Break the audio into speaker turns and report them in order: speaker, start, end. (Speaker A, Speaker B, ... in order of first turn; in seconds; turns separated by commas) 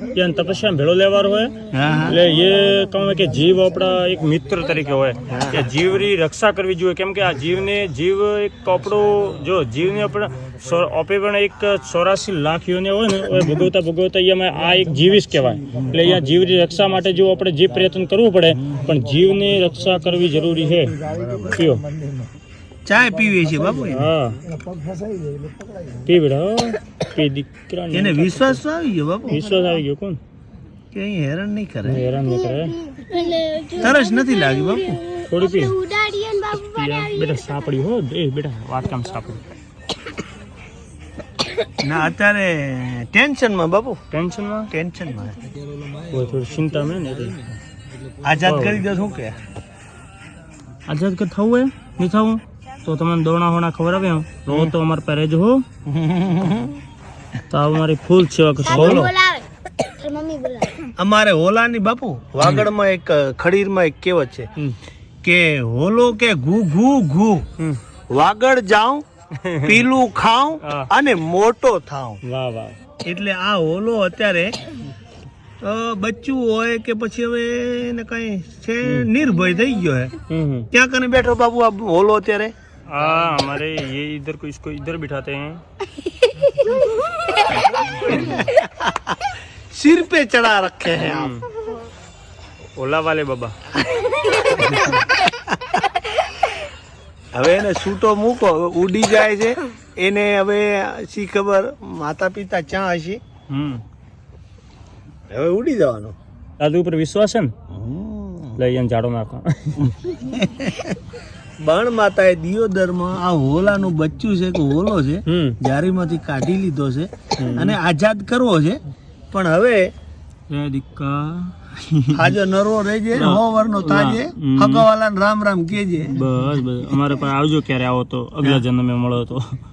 Speaker A: 0.1-21.9, Speaker B: 1.7-2.3, Speaker B: 5.3-5.7, Speaker B: 21.1-21.6, Speaker B: 22.9-24.1, Speaker A: 23.9-24.4, Speaker A: 26.0-28.6, Speaker B: 27.9-29.7, Speaker A: 29.3-30.2, Speaker B: 30.9-32.0, Speaker A: 31.8-32.8, Speaker C: 32.2-37.7, Speaker B: 33.8-35.0, Speaker A: 35.2-35.8, Speaker A: 36.5-39.4, Speaker B: 41.8-44.0, Speaker A: 44.1-44.7, Speaker B: 44.7-45.4, Speaker A: 46.0-47.6, Speaker B: 48.2-49.4, Speaker A: 48.4-48.9, Speaker A: 50.9-55.6, Speaker B: 55.9-56.8, Speaker A: 57.5-59.1, Speaker C: 58.6-60.9, Speaker B: 58.7-59.1, Speaker B: 61.0-64.5, Speaker A: 62.4-62.7, Speaker B: 65.2-67.4, Speaker B: 68.1-69.0, Speaker A: 69.4-69.8, Speaker B: 69.6-72.2, Speaker A: 70.6-70.9, Speaker A: 72.2-72.8, Speaker B: 73.0-74.6, Speaker B: 75.6-80.2, Speaker A: 78.8-79.1, Speaker A: 80.3-80.7, Speaker B: 80.7-82.5, Speaker A: 82.9-85.6, Speaker B: 87.8-91.3, Speaker A: 88.0-88.5, Speaker A: 91.0-91.5, Speaker A: 92.8-93.5, Speaker B: 94.0-95.8, Speaker B: 97.3-103.2, Speaker A: 103.5-103.8, Speaker B: 105.3-106.1, Speaker A: 106.6-107.5, Speaker B: 107.7-108.6, Speaker A: 108.6-109.9, Speaker B: 109.8-111.0, Speaker B: 111.6-118.8, Speaker A: 115.3-115.6, Speaker A: 117.4-117.8, Speaker B: 119.3-119.9, Speaker A: 120.5-122.3, Speaker B: 122.1-126.2, Speaker A: 123.1-124.8, Speaker A: 126.1-129.4